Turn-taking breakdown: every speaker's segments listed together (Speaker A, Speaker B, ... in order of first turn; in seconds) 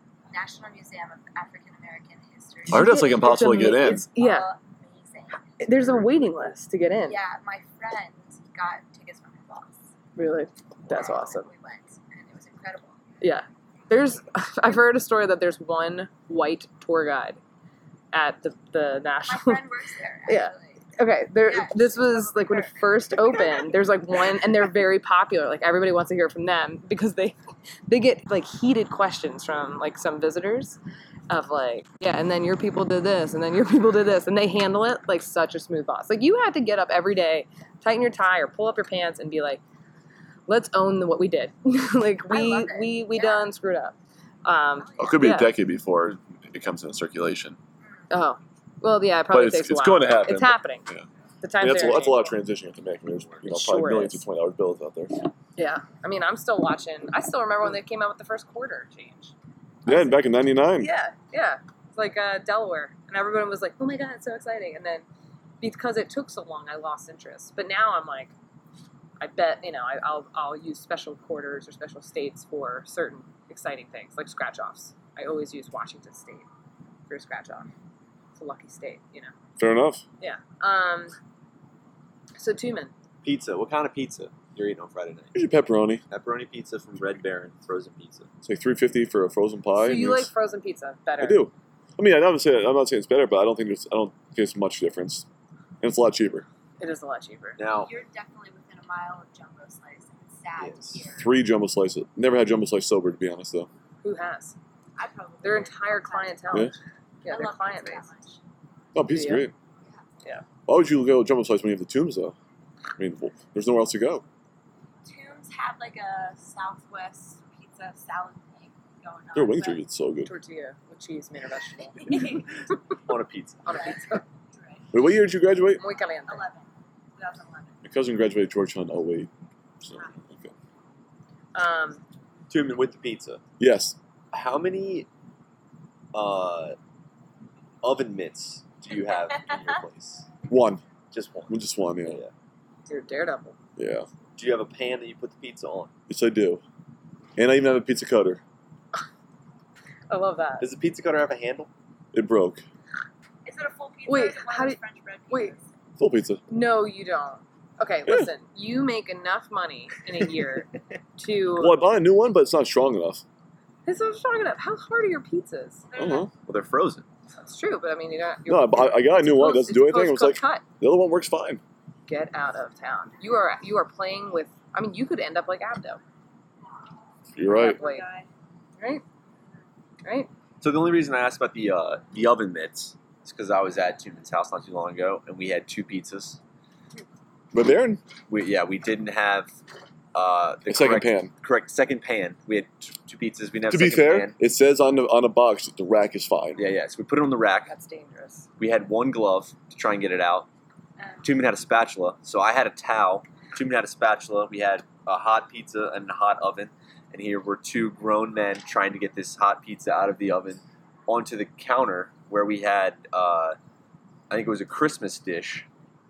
Speaker A: 0.3-5.7, 7.0-9.9, 10.9-13.0, 19.2-20.9, 21.5-23.8, 42.3-43.5, 44.8-45.3, 97.7-101.3, 105.0-106.7, 107.3-108.4, 115.0-119.8, 122.0-122.5, 123.7-124.9, 126.3-127.8, 139.3-139.6, 153.4-155.7, 165.9-166.3, 177.5-178.3
Speaker B: 2.7-4.1, 45.0-47.6, 49.3-51.0, 51.6-55.3, 59.9-60.9, 79.6-80.0, 85.3-86.0, 88.4-90.3, 91.2-95.3, 95.8-96.5, 101.2-103.7, 108.9-109.5, 110.7-112.4, 113.0-114.2, 119.3-120.3, 124.9-125.8, 127.8-129.3, 129.8-130.5, 133.6-134.0, 140.5-140.8, 141.5-142.2, 143.8-144.1, 146.1-146.6, 147.4-148.4, 152.1-152.7, 156.0-156.4, 161.6-163.2, 166.0-166.3, 168.5-171.6, 177.3-177.8, 187.5-188.0, 190.7-191.3, 193.7-196.6
Speaker C: 2.7-4.5, 5.6-7.2, 10.2-11.5, 13.2-17.4, 18.1-19.6, 20.3-27.4, 27.9-39.6, 40.5-45.5, 48.1-50.9, 51.4-52.4, 53.5-54.2, 55.6-59.3, 59.9-60.2, 60.8-65.0, 65.6-68.3, 69.2-76.5, 77.1-77.7, 78.4-79.3, 80.2-81.2, 82.4-82.9, 89.8-91.5, 96.8-97.6, 104.0-104.6, 105.4-108.1, 109.1-109.5, 120.2-122.3, 123.7-124.2, 125.8-126.5, 131.5-132.0, 142.9-143.6, 150.1-150.7, 154.1-155.6, 156.5-162.0, 163.9-166.0, 167.4-170.6, 172.1-176.0, 177.4-178.1, 178.8-179.0, 180.0-180.3, 197.7-198.5
Speaker D: 5.8-6.5, 53.1-53.5, 83.2-85.4, 86.1-88.3, 97.6-97.9, 100.6-101.1, 123.1-123.8, 132.5-133.4, 134.3-135.1, 136.1-136.8, 137.8-140.3, 141.1-142.3, 144.4-145.9, 150.6-151.7, 166.5-167.1, 180.6-186.4, 188.3-189.5, 190.1-194.4, 196.6-197.7, 198.6-200.5, 201.2-213.6, 214.3-215.7